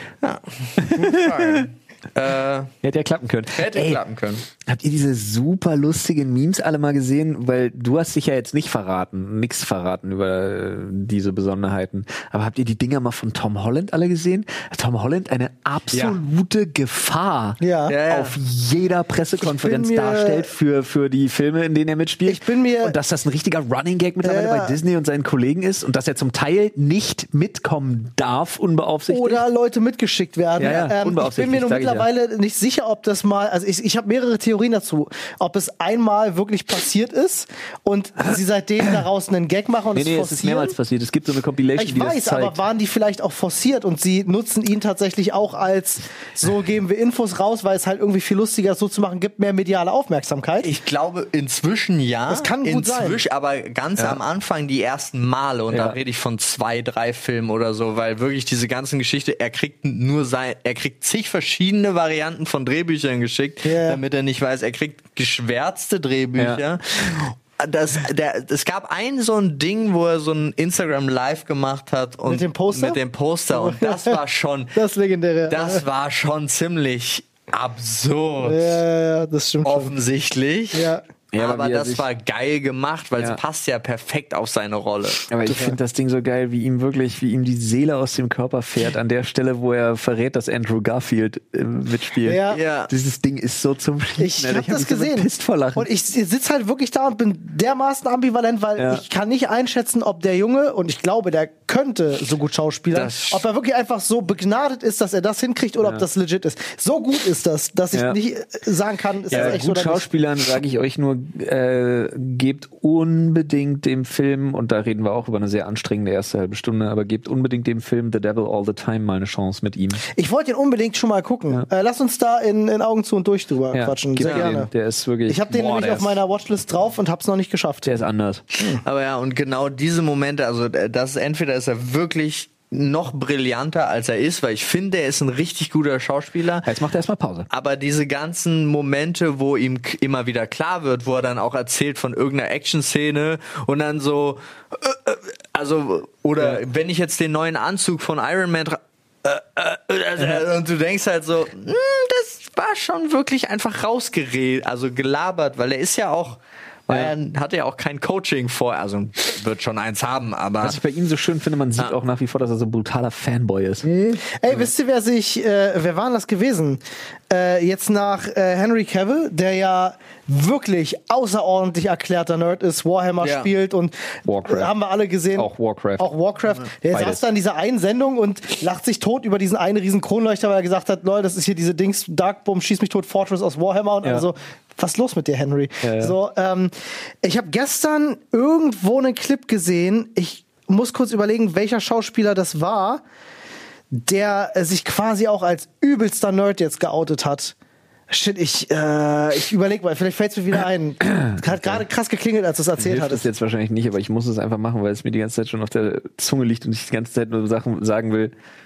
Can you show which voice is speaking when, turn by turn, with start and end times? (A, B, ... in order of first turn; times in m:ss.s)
0:00.2-0:02.7 A
0:00.8-0:01.6 B
0:02.8-0:04.0 B
0:03.5-0:04.4 A
0:04.6-0:29.5 B
0:15.9-0:16.2 A
0:17.6-0:18.0 C
0:17.9-0:18.4 A
0:19.4-0:20.5 C
0:22.3-0:23.0 C
0:24.2-0:24.8 C
0:29.1-0:40.8 C
0:30.6-0:32.1 B
0:39.9-0:42.6 B
0:41.8-0:50.7 C
0:50.6-1:14.8 A
0:52.3-0:53.2 C
0:55.7-0:56.0 B
1:03.6-1:04.0 C
1:06.4-1:06.6 B
1:12.3-1:13.0 C
1:13.5-1:14.2 C
1:14.7-1:15.8 C
1:15.5-1:18.8 A
1:18.4-1:19.9 C
1:19.6-1:20.8 A
1:20.7-1:21.0 C
1:21.3-1:22.1 B
1:21.4-1:25.3 A
1:25.3-1:35.9 B
1:25.4-1:25.8 C
1:32.2-1:32.6 C
1:32.5-1:32.9 A
1:34.2-1:50.1 C
1:38.8-1:39.0 B
1:42.9-1:43.4 A
1:47.9-1:48.2 B
1:49.3-2:00.0 B
2:00.1-2:04.7 C
2:03.7-2:06.2 B
2:04.2-2:04.5 A
2:05.3-2:07.9 C
2:07.8-2:08.4 B
2:08.8-2:16.7 A
2:16.6-2:17.5 B
2:17.5-2:40.8 A
2:30.2-2:30.5 B
2:40.6-2:43.8 B
2:44.2-3:13.0 C
2:53.2-2:53.5 A
2:54.3-2:54.7 B
2:55.4-2:56.1 B
2:56.9-2:57.2 B
3:05.8-3:06.1 B
3:13.9-3:17.5 C
3:18.1-3:23.3 C
3:21.4-3:21.8 B
3:22.8-3:28.3 B